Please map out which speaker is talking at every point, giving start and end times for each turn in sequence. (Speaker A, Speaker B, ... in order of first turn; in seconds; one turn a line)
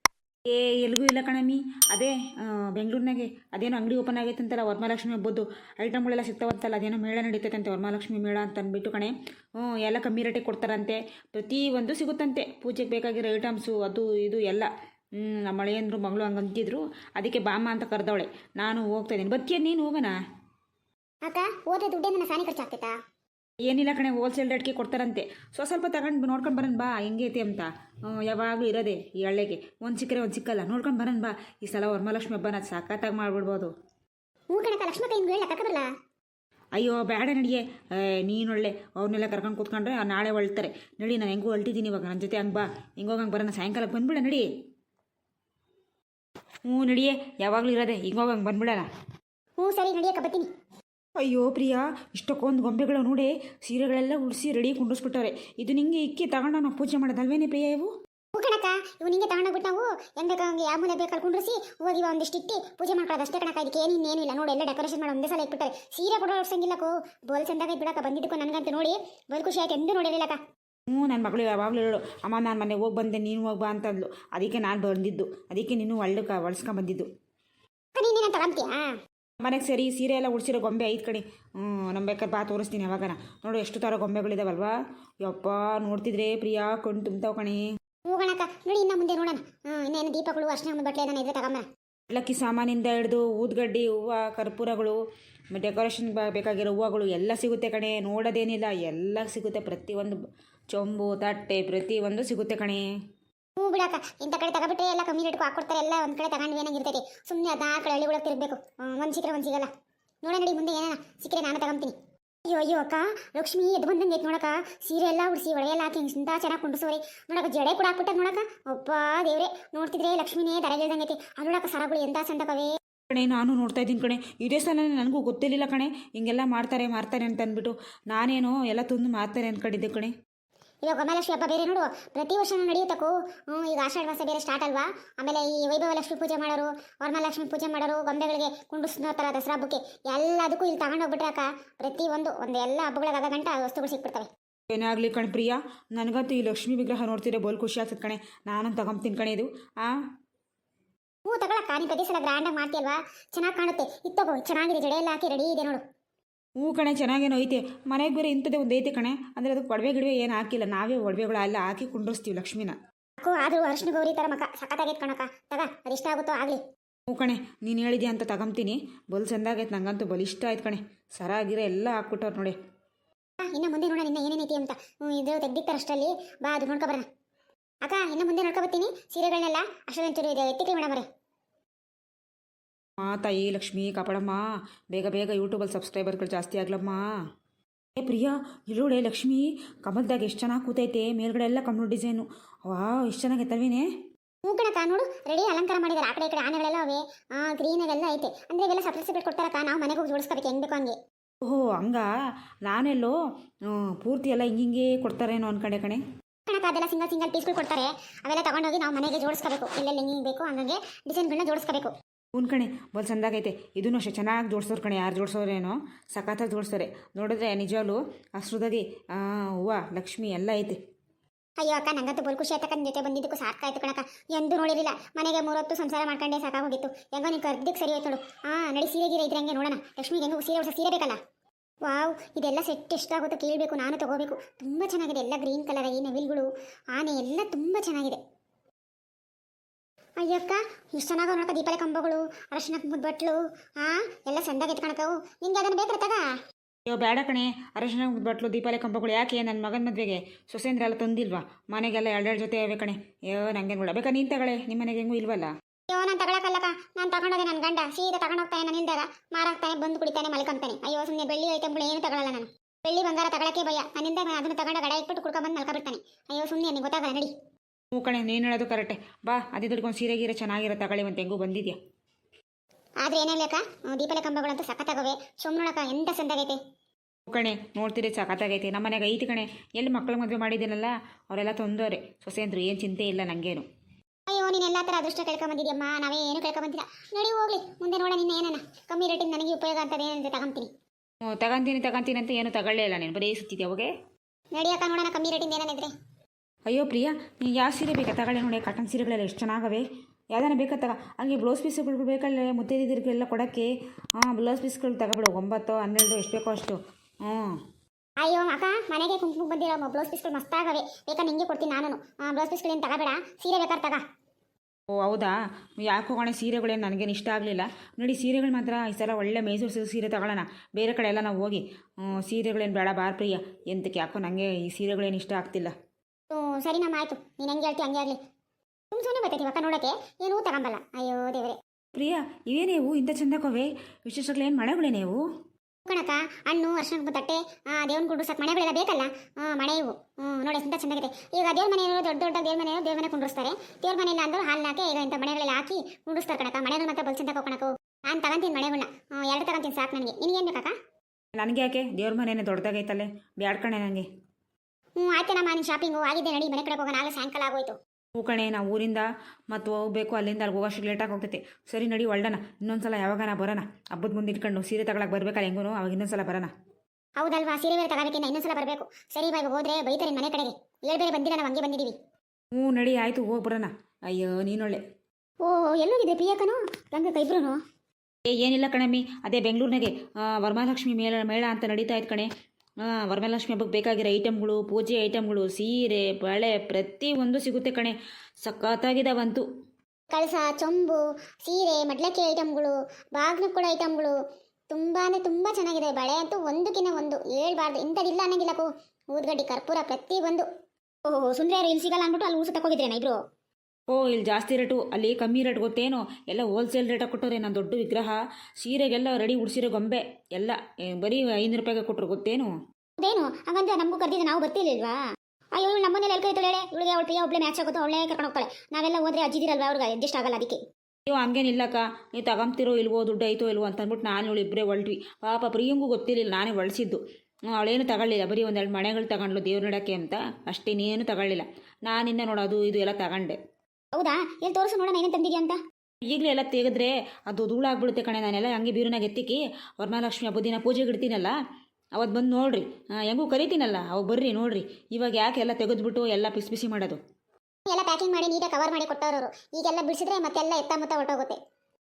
Speaker A: 0.5-20.1
Speaker B: 21.2-22.9
Speaker A: 23.6-33.7
Speaker B: 34.5-35.9
Speaker A: 36.7-44.5
Speaker A: 46.6-48.9
Speaker B: 49.6-50.5
Speaker A: 51.2-57.9
Speaker B: 58.3-70.4
Speaker A: 70.9-77.1
Speaker B: 77.9-79.0
Speaker A: 79.4-87.6
Speaker B: 88.1-91.7
Speaker A: 92.1-95.0
Speaker A: 95.5-102.8
Speaker B: 103.6-109.7
Speaker B: 110.2-111.9
Speaker B: 112.5-122.7
Speaker A: 123.1-130.1
Speaker B: 130.8-144.3
Speaker A: 144.7-150.0
Speaker B: 151.2-155.8
Speaker A: 156.6-162.8
Speaker B: 163.2-166.6
Speaker A: 167.1-172.6
Speaker B: 173.5-177.1
Speaker B: 177.8-181.1
Speaker A: 183.0-187.1
Speaker A: 187.9-193.9
Speaker B: 194.4-201.0
Speaker A: 201.4-202.1
Speaker A: 202.7-203.1
Speaker A: 203.7-206.0
Speaker B: 206.5-211.9
Speaker A: 212.3-220.8
Speaker B: 221.6-231.2
Speaker B: 231.8-238.2
Speaker B: 240.2-246.3
Speaker A: 246.9-255.5
Speaker B: 255.9-267.3
Speaker A: 267.9-271.8
Speaker B: 273.0-276.6
Speaker A: 277.3-283.7
Speaker B: 284.3-290.7
Speaker A: 291.2-293.9
Speaker B: 294.6-295.9
Speaker A: 296.7-307.6
Speaker B: 308.2-314.0
Speaker A: 314.9-325.7
Speaker B: 326.3-328.2
Speaker B: 328.9-331.6
Speaker A: 331.9-335.2
Speaker B: 335.9-350.7
Speaker A: 351.4-354.1
Speaker B: 355.0-357.8
Speaker A: 358.1-366.5
Speaker B: 367.2-371.9
Speaker A: 372.5-374.8
Speaker B: 375.4-377.6
Speaker A: 378.2-382.3
Speaker A: 382.8-389.4
Speaker B: 390.1-394.1
Speaker B: 394.7-400.4
Speaker B: 401.1-403.2
Speaker A: 403.9-412.5
Speaker B: 413.0-415.0
Speaker B: 415.6-420.6
Speaker A: 421.1-433.4
Speaker B: 433.9-435.6
Speaker A: 436.0-441.3
Speaker A: 441.9-447.0
Speaker B: 447.7-451.4